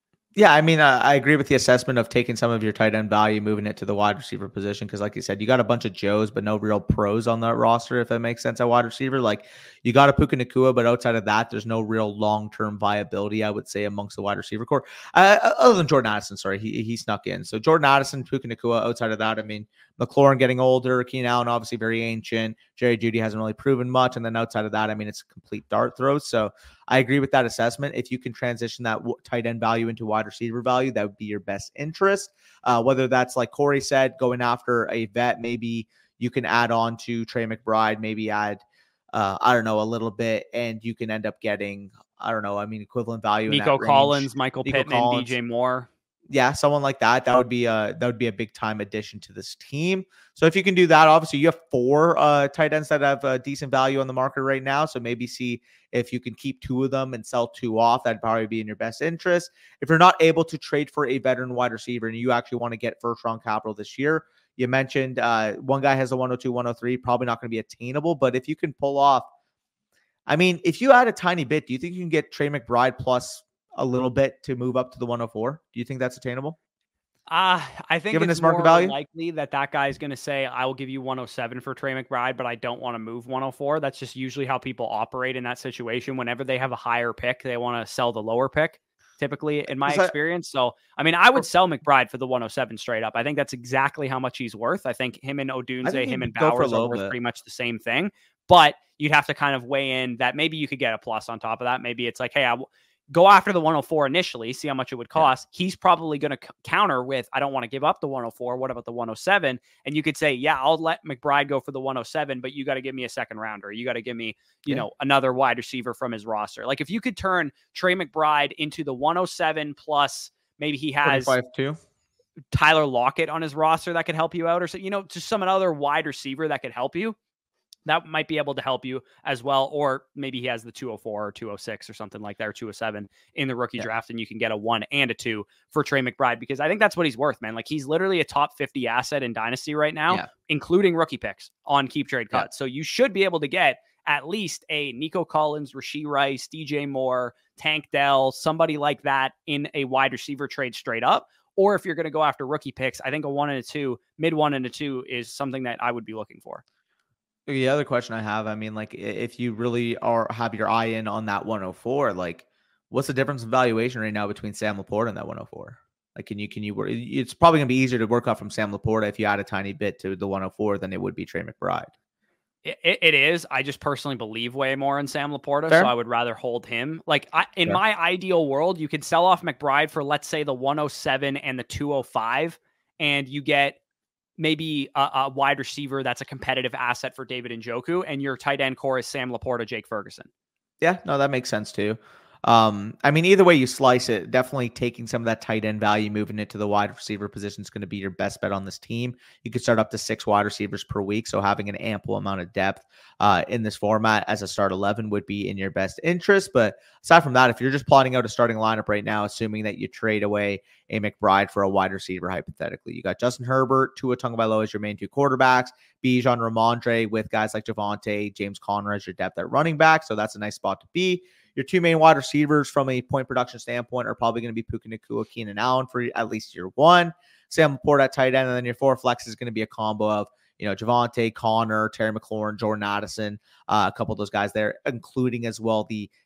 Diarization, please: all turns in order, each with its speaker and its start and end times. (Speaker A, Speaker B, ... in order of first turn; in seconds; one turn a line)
Speaker A: 0.4-38.6
Speaker A: 39.1-45.4
Speaker B: 43.5-45.9
Speaker A: 46.3-69.3
Speaker A: 70.3-76.6
Speaker B: 77.3-121.4
Speaker A: 78.1-79.0
Speaker A: 89.8-90.1
Speaker A: 95.8-97.1
Speaker A: 121.0-121.8
Speaker B: 122.5-127.2
Speaker B: 127.9-156.6
Speaker A: 157.5-171.9
Speaker B: 172.6-183.8
Speaker B: 184.4-190.3
Speaker A: 190.8-236.1